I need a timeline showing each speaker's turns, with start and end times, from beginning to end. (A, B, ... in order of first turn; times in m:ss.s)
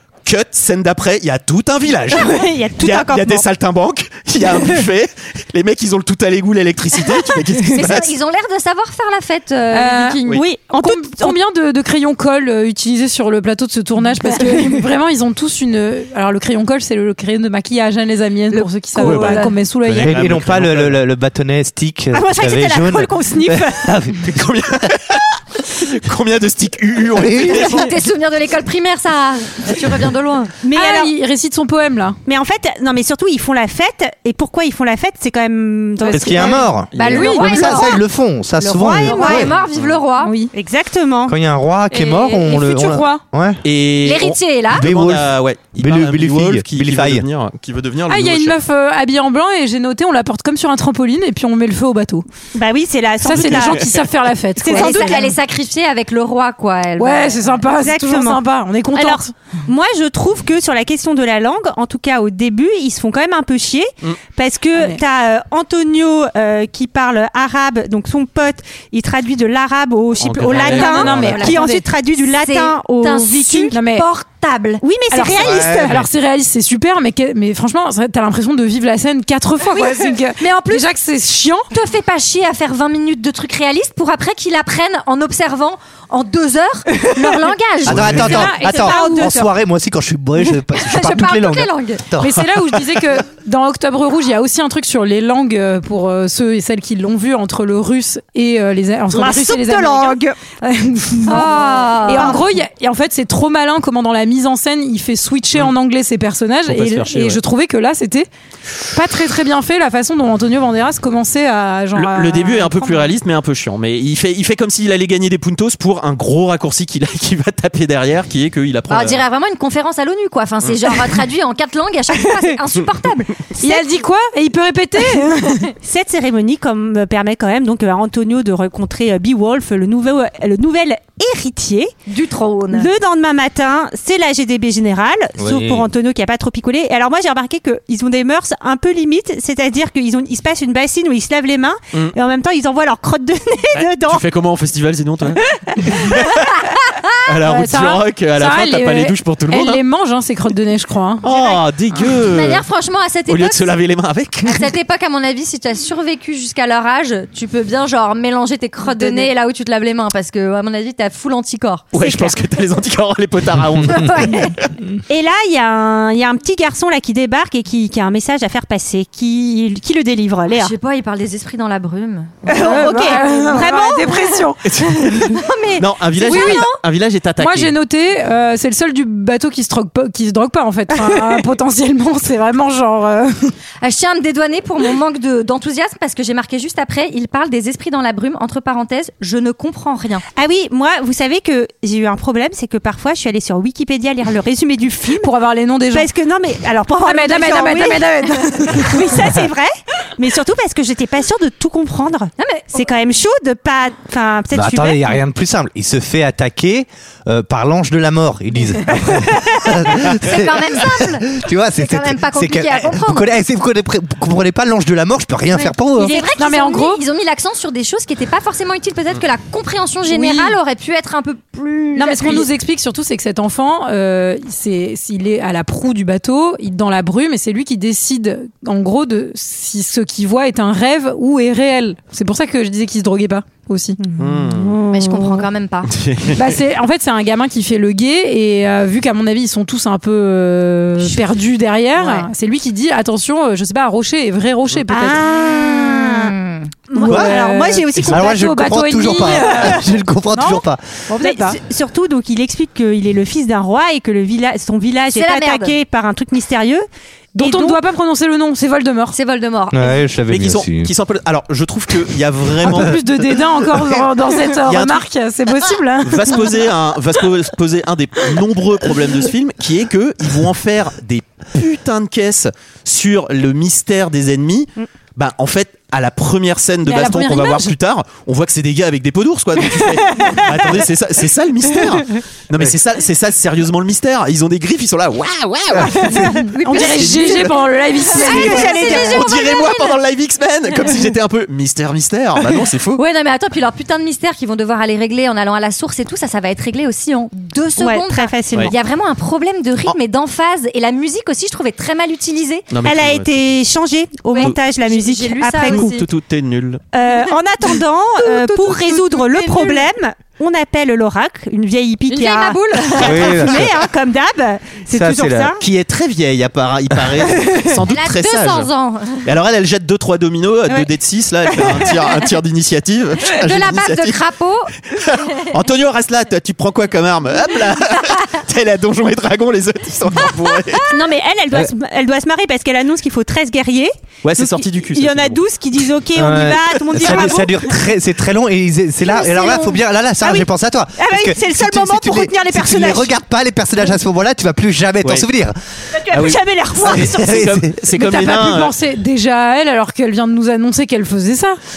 0:00.2-0:08.1 A
0:02.1-0:03.4 B
0:07.7-0:10.4 C
0:09.7-0:20.2 D
0:10.3-0:11.4 B
0:18.5-0:19.5 C
0:19.0-0:21.0 A
0:20.0-0:24.4 E
0:22.1-0:23.9 B
0:24.2-0:27.9 A
0:27.1-0:27.9 E
0:27.3-0:30.5 C
0:30.6-0:31.1 B
0:30.7-0:32.2 D
0:32.3-0:36.6 B
0:36.0-0:37.8 D
0:36.1-0:39.6 E
0:37.0-0:38.0 C
0:37.5-0:37.9 B
0:38.6-0:39.5 B
0:38.8-0:40.4 C
0:40.2-0:40.5 D
0:40.5-0:41.3 B
0:41.3-0:43.6 E
0:41.9-0:43.2 D
0:43.6-0:48.6 A
0:44.0-0:44.8 C
0:44.7-0:47.3 E
0:48.1-0:52.3 D
0:52.5-0:53.9 B
0:53.2-0:55.4 D
0:53.6-0:54.0 A
0:54.6-0:55.3 B
0:54.7-0:57.6 C
0:57.0-0:59.3 D
0:57.8-0:58.4 B
0:58.9-1:13.8 B
1:04.8-1:05.0 D
1:10.2-1:11.4 A
1:10.5-1:11.8 D
1:10.8-1:11.7 C
1:12.2-1:14.8 C
1:13.7-1:14.1 D
1:14.8-1:16.0 B
1:15.1-1:21.7 D
1:15.4-1:16.0 E
1:19.7-1:20.9 C
1:21.7-1:28.5 C
1:27.0-1:27.4 D
1:27.9-1:32.8 E
1:27.9-1:28.3 A
1:28.2-1:29.4 D
1:28.2-1:29.5 B
1:30.7-1:32.1 C
1:32.2-1:48.3 D
1:39.1-1:40.4 B
1:41.3-1:41.9 B
1:41.3-1:42.4 C
1:46.7-1:47.4 A
1:48.9-1:53.2 D
1:52.0-1:59.2 A
1:58.9-2:03.8 C
2:03.6-2:05.7 D
2:05.8-2:11.9 B
2:12.1-2:12.9 C
2:12.7-2:24.2 B
2:15.4-2:15.9 E
2:23.7-2:26.6 A
2:25.6-2:26.0 B
2:27.3-2:29.8 A
2:27.4-2:31.2 D
2:31.2-2:32.6 A
2:31.2-2:31.6 B
2:32.0-2:33.8 C
2:33.3-2:34.7 A
2:34.4-2:41.9 C
2:38.8-2:39.3 D
2:41.9-2:44.7 A
2:42.0-2:42.3 B
2:43.9-2:44.6 C
2:45.1-2:50.7 B
2:50.5-2:54.5 C
2:52.5-2:54.1 B
2:52.6-2:55.2 D
2:54.7-2:57.7 A
2:55.2-2:56.8 C
2:56.2-2:56.7 D
2:57.4-3:03.5 D
3:03.8-3:10.2 C
3:10.4-3:15.3 B
3:15.2-3:16.1 D
3:15.9-3:25.1 B
3:17.0-3:19.4 D
3:22.4-3:22.8 C
3:24.5-3:36.2 E
3:29.9-3:33.3 C
3:35.5-3:42.5 C
3:36.0-3:37.0 D
3:40.1-3:40.6 D
3:42.0-3:54.0 D
3:54.2-3:54.8 A
3:54.5-3:55.4 B
3:54.9-3:55.9 C
3:55.9-3:56.5 A
3:56.4-4:05.3 D
4:04.9-4:06.3 B
4:05.8-4:06.7 C
4:06.9-4:08.5 B
4:06.9-4:11.6 D
4:07.0-4:07.4 E
4:08.0-4:10.8 E
4:09.5-4:09.8 B
4:11.2-4:16.9 B
4:15.1-4:15.8 C
4:17.4-4:19.2 D
4:17.4-4:17.8 B
4:19.1-4:20.0 C
4:19.7-4:20.9 E
4:20.3-4:23.0 A
4:22.7-4:22.9 E
4:22.7-4:26.7 D
4:24.5-4:25.0 A
4:26.0-4:47.4 A
4:40.1-4:40.4 B
4:46.2-4:47.5 C
4:46.2-4:49.1 D
4:48.1-4:50.0 C
4:48.2-4:49.3 B
4:48.2-4:53.0 A
4:53.0-5:02.7 C
4:57.8-4:58.7 B
5:02.7-5:03.4 A
5:02.8-5:05.9 B
5:04.3-5:06.1 C
5:05.6-5:06.8 A
5:06.9-5:15.6 B
5:08.2-5:09.8 C
5:12.1-5:13.7 C
5:13.0-5:13.7 E
5:14.9-5:15.5 E
5:15.6-5:18.7 A
5:17.9-5:19.3 C
5:19.2-5:24.2 A
5:21.5-5:22.0 B
5:23.2-5:24.7 C
5:24.9-5:30.9 A
5:30.2-5:30.9 C
5:30.9-5:37.7 B
5:34.2-5:35.4 A
5:36.2-5:45.6 E
5:37.0-5:37.4 A
5:39.1-5:39.8 C
5:40.2-5:43.2 B
5:46.0-5:47.5 B
5:46.1-5:48.8 A
5:46.2-5:47.8 E
5:47.9-5:51.6 D